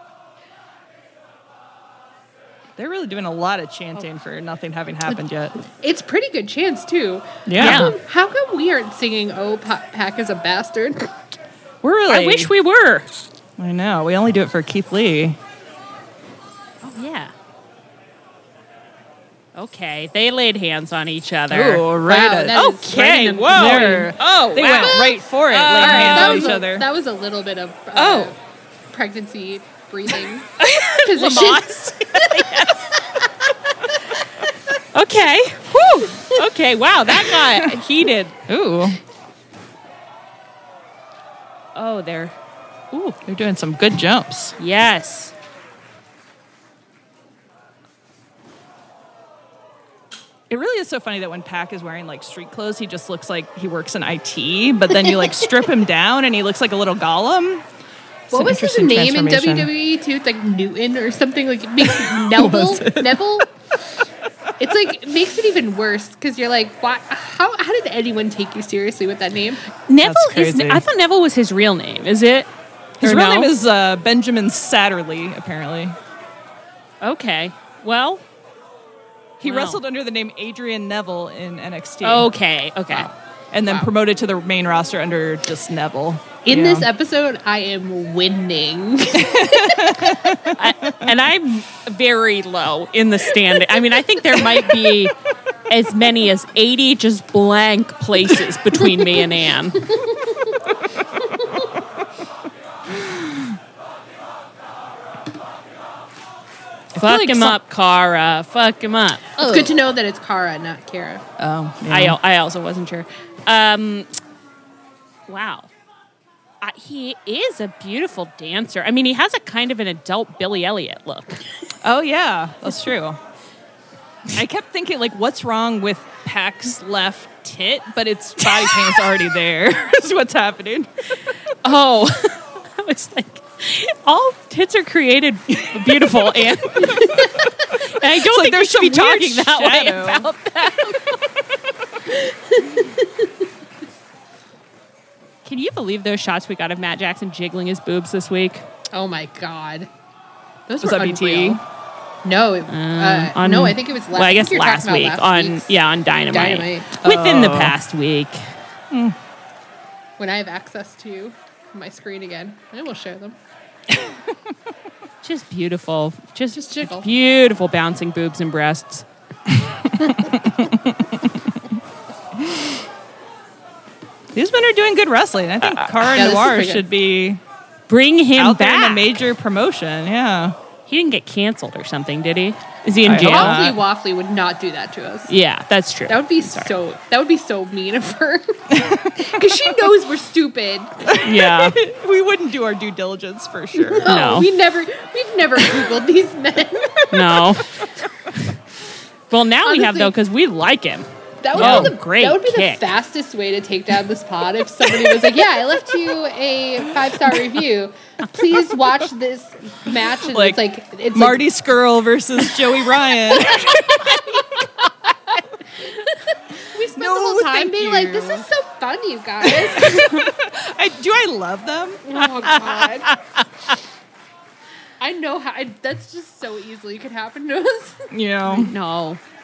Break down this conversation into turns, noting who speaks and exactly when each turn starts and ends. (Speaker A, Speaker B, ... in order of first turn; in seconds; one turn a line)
Speaker A: 2.8-5.5
Speaker B: 5.7-11.1
Speaker A: 7.5-7.9
Speaker C: 7.6-8.0
Speaker A: 11.8-12.5
Speaker C: 12.1-13.1
Speaker A: 13.6-15.4
Speaker C: 16.8-17.3
Speaker C: 19.6-21.9
Speaker A: 21.5-22.6
Speaker B: 22.0-24.1
Speaker C: 22.5-26.6
Speaker A: 23.5-26.9
Speaker B: 25.7-28.4
Speaker C: 27.9-28.3
Speaker B: 28.9-31.7
Speaker C: 30.6-33.0
Speaker C: 34.9-38.3
Speaker A: 37.3-37.7
Speaker A: 38.5-39.0
Speaker C: 41.7-42.3
Speaker C: 42.9-43.2
Speaker A: 43.2-44.6
Speaker C: 44.6-45.3
Speaker A: 50.5-57.6
Speaker A: 58.3-59.7
Speaker B: 58.3-63.5
Speaker A: 61.8-63.4
Speaker B: 64.6-69.6
Speaker C: 69.9-72.5
Speaker A: 70.0-70.8
Speaker A: 73.0-76.0
Speaker C: 73.0-73.5
Speaker C: 77.0-78.2
Speaker A: 79.4-82.3
Speaker C: 79.4-79.8
Speaker C: 82.0-83.1
Speaker A: 82.9-86.9
Speaker B: 86.4-90.1
Speaker A: 89.1-91.1
Speaker C: 90.5-95.1
Speaker C: 95.7-99.8
Speaker B: 100.0-100.5
Speaker A: 103.0-103.3
Speaker A: 106.9-107.6
Speaker C: 106.9-109.6
Speaker A: 109.4-109.7
Speaker B: 109.4-111.2
Speaker A: 111.4-112.2
Speaker C: 111.9-114.1
Speaker C: 115.3-115.7
Speaker C: 116.6-121.4
Speaker A: 121.8-123.2
Speaker A: 124.3-130.9
Speaker C: 128.4-128.9
Speaker C: 131.6-137.0
Speaker B: 136.9-137.3
Speaker C: 138.0-141.2
Speaker A: 138.1-140.3
Speaker B: 142.1-143.3
Speaker C: 145.4-148.6
Speaker B: 148.9-149.9
Speaker B: 150.7-151.6
Speaker A: 150.8-151.6
Speaker B: 152.2-155.7
Speaker C: 152.7-158.4
Speaker B: 156.3-156.9
Speaker A: 157.0-157.8
Speaker B: 160.2-163.4
Speaker A: 163.9-164.2
Speaker C: 165.2-169.0
Speaker B: 166.5-167.1
Speaker A: 170.2-171.2
Speaker A: 172.4-172.7
Speaker A: 174.3-177.4
Speaker B: 176.1-176.8
Speaker C: 177.9-179.2
Speaker A: 178.3-180.6
Speaker C: 180.9-183.6
Speaker A: 183.0-183.8
Speaker B: 183.2-185.3
Speaker C: 185.3-186.7
Speaker B: 186.1-190.9
Speaker A: 188.7-189.0
Speaker A: 191.1-194.1
Speaker C: 191.2-191.8
Speaker B: 193.9-197.0
Speaker C: 194.0-194.5
Speaker C: 197.1-197.7
Speaker C: 199.3-202.8
Speaker B: 199.6-200.1
Speaker B: 201.4-211.4
Speaker A: 201.5-201.9
Speaker A: 210.2-210.6
Speaker A: 211.1-214.3
Speaker B: 213.6-214.2
Speaker B: 216.6-220.1
Speaker A: 216.9-218.5
Speaker A: 219.4-222.2
Speaker B: 222.0-223.1
Speaker C: 222.5-223.1
Speaker B: 225.0-228.1
Speaker A: 228.1-228.7
Speaker C: 228.4-229.2